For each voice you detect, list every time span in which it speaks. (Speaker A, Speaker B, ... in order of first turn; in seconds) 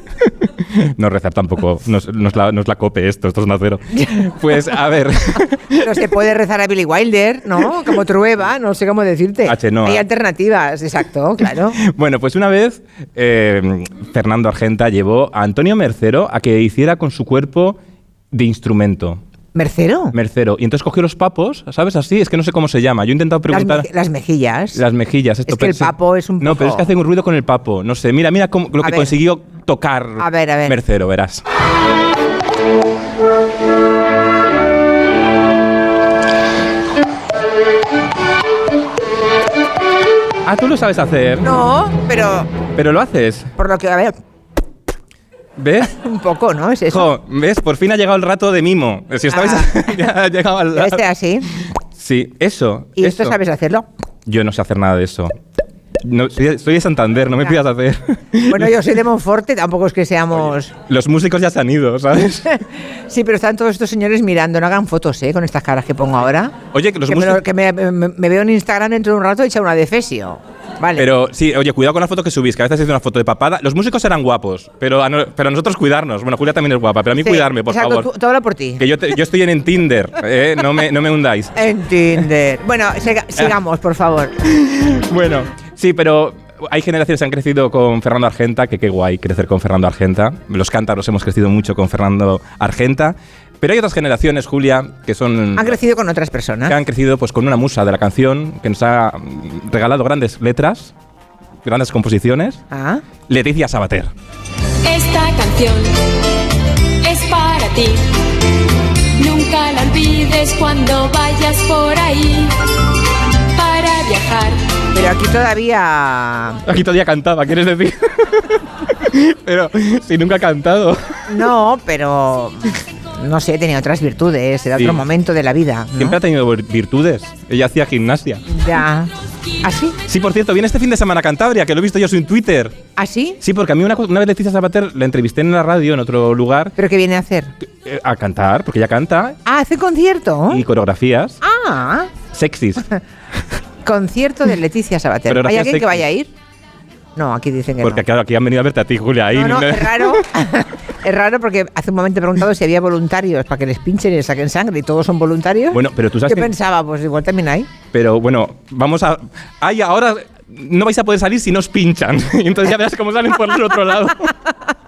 Speaker A: 0.4-5.9, 9.5-10.1, 11.8-17.8, 18.3-19.2, 20.1-23.9, 24.7-31.4, 40.5-41.5, 42.8-43.5, 45.6-45.9, 46.9-51.0, 52.0-53.4, 54.3-55.3, 56.0-58.7, 60.9-62.6, 66.7-67.4, 71.0-78.1, 78.8-81.5, 84.4-95.8, 96.7-100.9, 101.7-102.6, 103.3-104.1, 116.7-121.0, 124.8-125.0, 126.0-128.5, 130.1-132.8, 133.4-136.7, 137.8-139.4, 140.5-141.4, 142.3-142.9, 145.3-146.0, 147.8-150.2, 155.7-156.5, 157.9-164.4
Speaker B: 5.8-11.8, 19.5-20.1, 23.5-24.8, 25.5-26.9, 28.8-29.1, 30.2-30.8, 41.4-42.5, 43.6-44.1, 45.9-47.1, 49.3-49.7, 50.7-51.5, 53.0-53.8, 58.5-60.7, 63.1-66.5, 67.1-71.0, 77.2-78.8, 81.5-84.3, 95.5-96.8, 102.7-103.0, 114.9-116.6, 121.3-126.2, 128.5-129.1, 129.6-130.0, 133.0-133.4, 136.8-137.5, 139.5-140.6, 141.4-142.1, 143.8-146.3, 147.2-148.0, 149.3-157.7
Speaker C: 104.9-105.9, 107.0-108.0, 109.2-112.5, 113.5-114.5